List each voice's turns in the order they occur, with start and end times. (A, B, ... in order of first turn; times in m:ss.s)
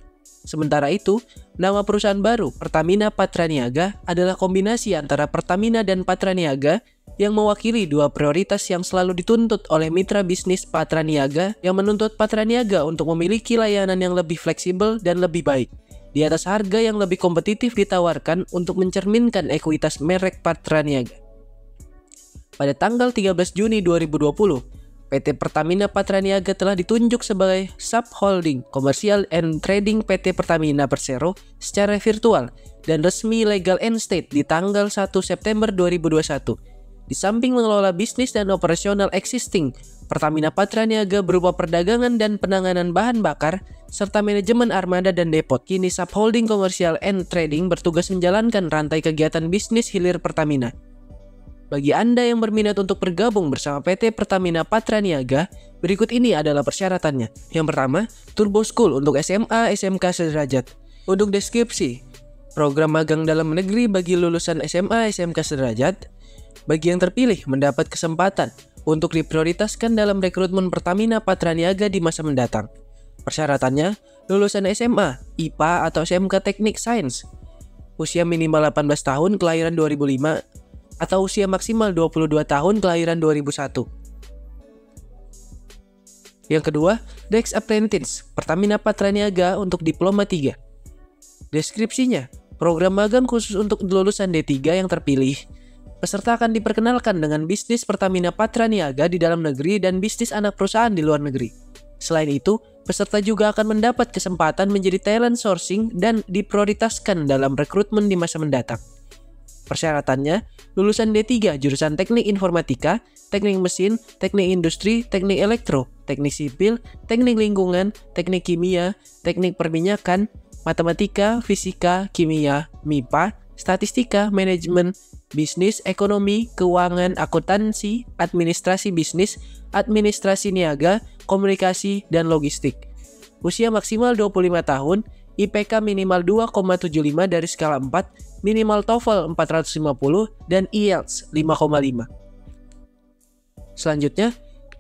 0:00.5-0:21.2 A
0:22.6-0:36.6 A
0:37.1-0:50.7 A
0:51.7-1:02.0 A
1:02.6-1:06.0 A
1:06.7-1:12.7 A
1:13.3-1:17.2 A
1:18.0-1:20.4 A
1:21.0-1:23.8 A
1:26.5-1:30.6 A
1:31.5-1:35.4 A
1:36.0-1:48.8 A
1:49.7-2:12.8 A
2:13.4-2:22.1 A
2:23.8-2:24.3 A